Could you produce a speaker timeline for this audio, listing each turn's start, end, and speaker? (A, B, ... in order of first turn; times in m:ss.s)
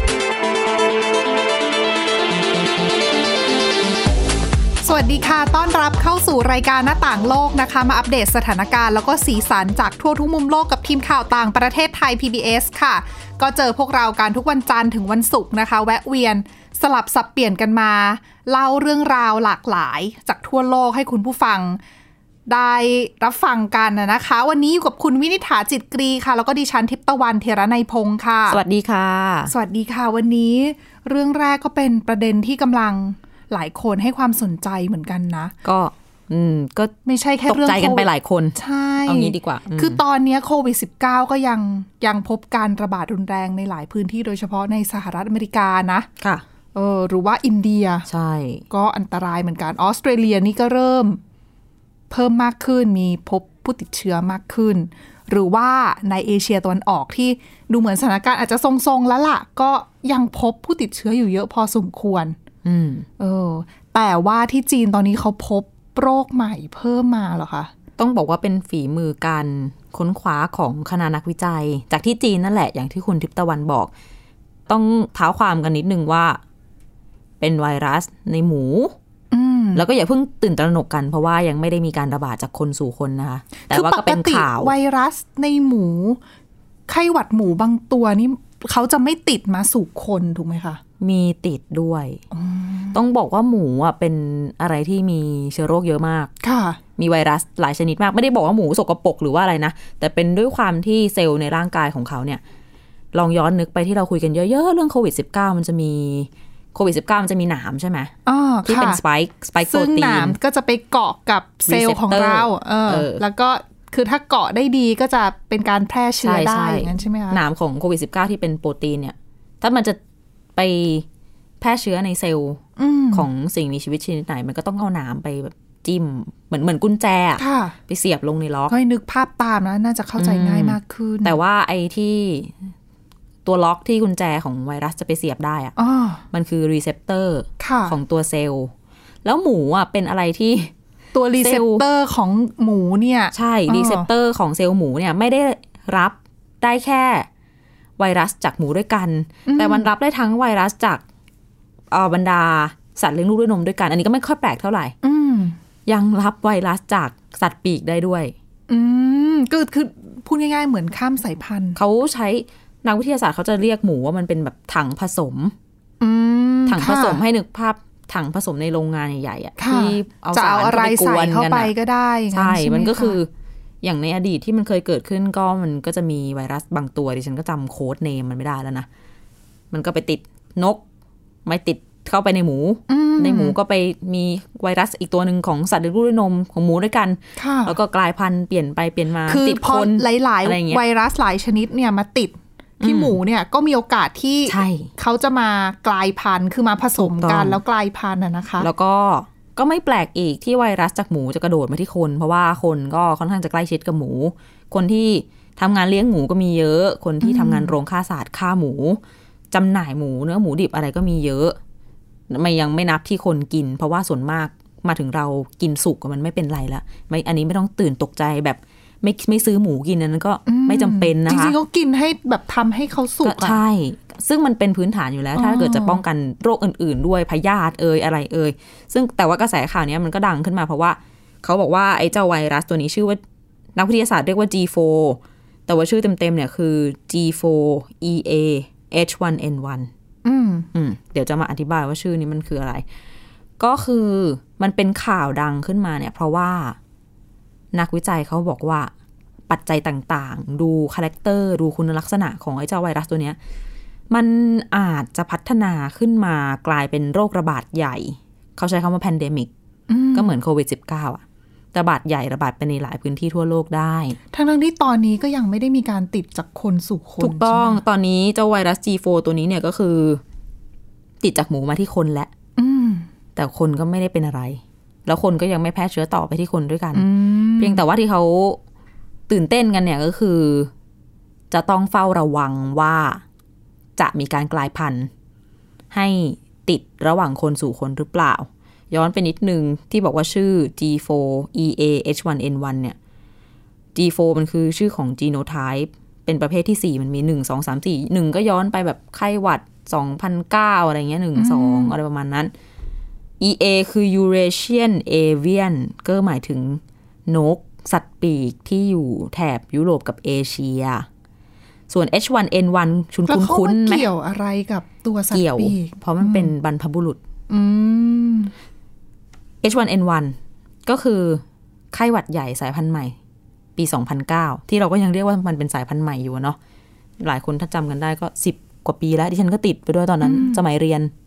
0:04.8-0:21.8 A
0:22.5-0:28.6 A
0:28.5-0:29.5 B
0:29.5-0:35.5 A
0:35.6-0:36.9 B
0:37.0-0:46.1 A
0:37.5-0:40.0 B
0:46.7-0:48.1 A
0:48.1-0:48.6 B
0:48.7-0:51.2 A
0:52.1-1:02.4 A
1:02.6-1:03.1 B
1:03.2-1:07.7 A
1:08.0-1:13.9 B
1:14.7-1:16.4 B
1:17.4-1:18.9 B
1:19.3-1:19.8 A
1:19.7-1:24.7 B
1:23.6-1:26.2 A
1:26.9-1:30.8 A
1:31.0-1:32.2 B
1:32.3-1:33.0 A
1:32.9-1:36.3 B
1:36.4-1:36.8 A
1:37.0-1:42.4 B
1:43.1-1:48.1 B
1:48.2-1:49.0 A
1:48.6-1:50.4 B
1:49.6-1:57.4 A
1:51.6-1:53.2 B
1:56.2-2:00.0 B
2:00.5-2:01.0 B
2:01.6-2:02.6 B
2:02.8-2:03.3 A
2:03.1-2:08.7 B
2:07.4-2:07.8 A
2:08.7-2:11.4 A
2:10.2-2:12.7 B
2:13.4-2:15.7 B
2:15.8-2:16.2 A
2:16.3-2:18.7 B
2:17.6-2:18.0 A
2:19.2-2:20.7 B
2:21.1-2:24.1 A
2:21.4-2:21.8 B
2:23.3-2:27.3 B
2:28.0-2:31.0 B
2:29.4-2:29.9 A
2:31.9-2:34.9 B
2:35.0-2:35.6 A
2:35.8-2:38.3 B
2:38.7-2:41.8 A
2:41.8-2:45.5 B
2:46.0-2:47.2 A
2:46.7-2:51.7 B
2:49.6-2:53.2 A
2:52.3-2:53.3 B
2:53.8-2:58.9 B
2:59.7-3:00.8 B
3:01.4-3:10.8 B
3:02.9-3:03.5 A
3:07.4-3:07.7 A
3:09.3-3:18.7 A
3:12.8-3:13.2 B
3:14.5-3:14.9 B
3:17.0-3:17.6 B
3:18.6-3:29.0 B
3:27.2-3:27.7 A
3:29.5-3:31.6 B
3:32.3-3:41.6 B
3:40.5-3:43.6 A
3:43.2-3:53.2 B
3:45.4-3:46.0 A
3:53.8-3:59.9 B
4:00.2-4:00.7 A
4:00.7-4:02.8 B
4:03.6-4:06.8 B
4:07.7-4:08.9 B
4:09.5-4:13.4 B
4:14.1-4:19.5 B
4:19.9-4:20.3 A
4:20.1-4:21.2 B
4:21.7-4:24.2 B
4:24.3-4:27.8 A
4:27.2-4:30.2 B
4:31.2-4:32.3 B
4:32.6-4:33.1 A
4:33.4-4:37.1 B
4:36.9-4:37.8 A
4:37.6-4:38.6 B
4:39.3-4:40.7 B
4:41.5-4:43.2 B
4:44.0-4:45.1 B
4:45.9-4:53.0 B
4:53.9-5:02.5 B
5:01.4-5:01.9 A
5:03.4-5:11.1 B
5:11.9-5:14.0 B
5:13.3-5:16.5 A
5:15.3-5:17.2 B
5:17.5-5:18.5 A
5:19.6-5:23.2 B
5:23.8-5:26.6 B
5:27.2-5:31.1 B
5:30.2-5:30.6 A